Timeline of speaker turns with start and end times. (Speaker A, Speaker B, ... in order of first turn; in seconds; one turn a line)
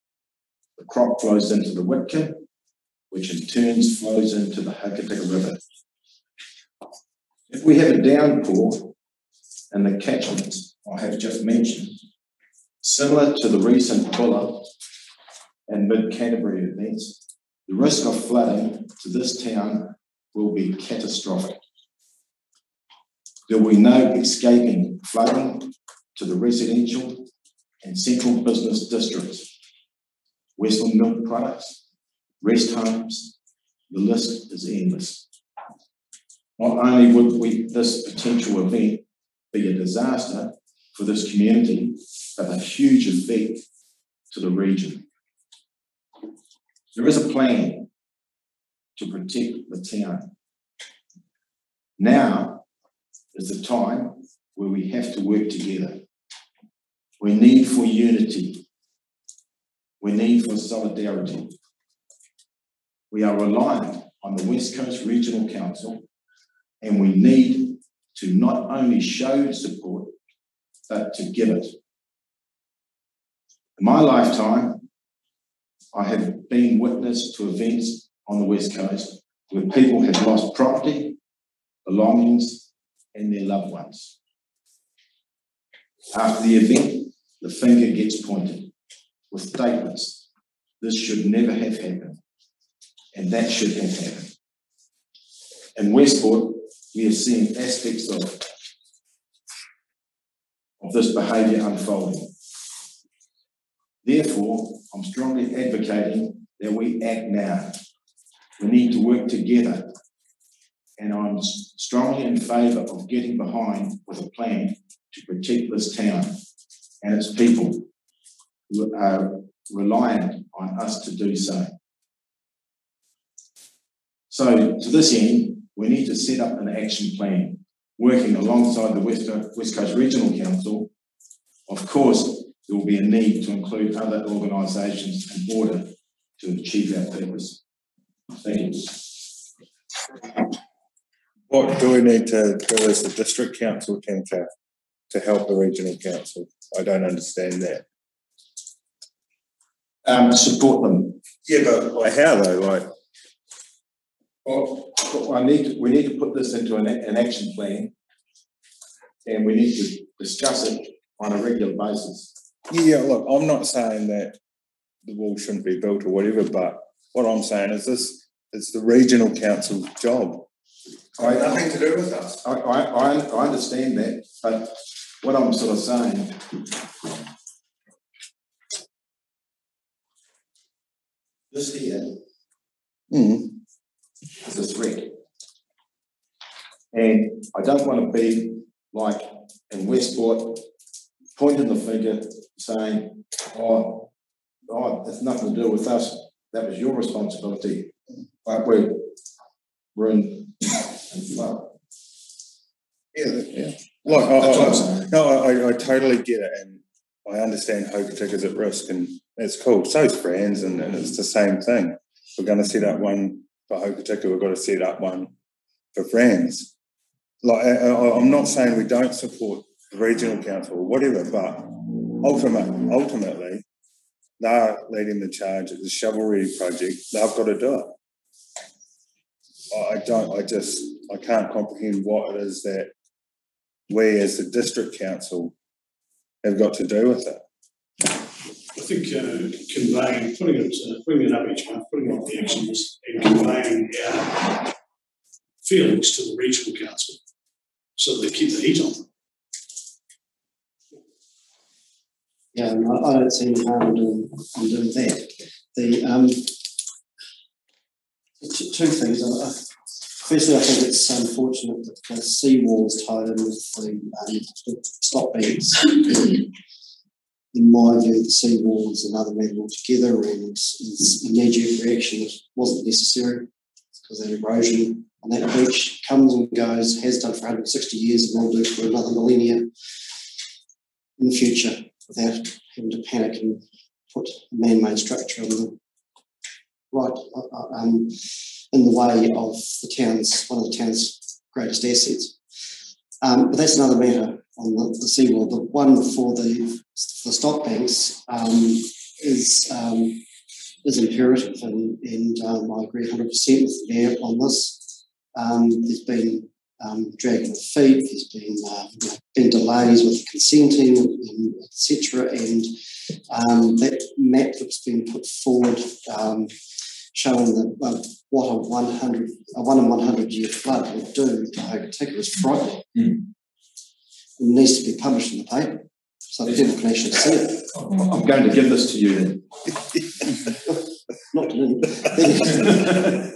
Speaker A: 0.8-2.5
Speaker A: 3.1-5.6
Speaker A: 7.5-8.9
Speaker A: 9.7-12.0
Speaker A: 12.8-14.7
Speaker A: 15.7-21.6
Speaker A: 23.5-27.3
Speaker A: 27.8-29.5
Speaker A: 30.6-31.8
Speaker A: 32.4-33.3
Speaker A: 33.9-35.2
Speaker A: 36.6-43.6
Speaker A: 44.3-45.1
Speaker A: 46.9-47.9
Speaker A: 49.0-50.3
Speaker A: 52.0-52.6
Speaker A: 53.3-56.0
Speaker A: 57.2-58.6
Speaker A: 60.0-61.5
Speaker A: 63.1-66.0
Speaker A: 66.8-70.2
Speaker A: 70.9-71.8
Speaker A: 73.8-74.8
Speaker A: 75.9-81.2
Speaker A: 81.8-84.1
Speaker A: 86.1-88.7
Speaker A: 89.3-90.2
Speaker A: 90.8-92.2
Speaker A: 93.1-94.3
Speaker A: 95.8-98.5
Speaker A: 100.8-102.3
Speaker A: 104.0-107.8
Speaker A: 108.6-109.9
Speaker A: 111.0-116.4
Speaker A: 117.0-117.9
Speaker A: 118.7-121.7
Speaker A: 124.3-130.9
Speaker A: 131.7-137.6
Speaker A: 138.3-139.2
Speaker B: 141.5-144.5
Speaker B: 145.1-147.8
Speaker A: 150.1-151.2
Speaker B: 151.5-152.9
Speaker A: 154.4-157.9
Speaker A: 159.2-162.3
Speaker B: 162.7-164.4
Speaker B: 165.1-170.5
Speaker A: 171.2-171.7
Speaker B: 171.2-172.4
Speaker A: 172.4-176.6
Speaker A: 181.5-182.2
Speaker B: 183.1-183.5
Speaker A: 184.4-185.2
Speaker A: 186.9-190.7
Speaker A: 191.3-194.1
Speaker A: 194.7-199.1
Speaker A: 199.9-201.7
Speaker B: 203.2-215.3
Speaker A: 204.1-205.1
Speaker B: 215.9-216.7
Speaker B: 217.4-223.6
Speaker B: 224.4-227.9
Speaker B: 229.7-232.9
Speaker B: 233.9-235.6
Speaker B: 236.4-237.4
Speaker C: 238.7-244.7
Speaker C: 245.6-247.2
Speaker C: 248.0-249.1
Speaker D: 252.5-256.6
Speaker D: 258.4-266.5
Speaker D: 267.5-273.5
Speaker D: 274.0-279.7
Speaker D: 281.2-285.8
Speaker D: 286.9-292.4
Speaker D: 293.2-300.2
Speaker D: 300.8-323.0
Speaker D: 324.4-327.7
Speaker A: 327.9-329.5
Speaker D: 331.3-333.1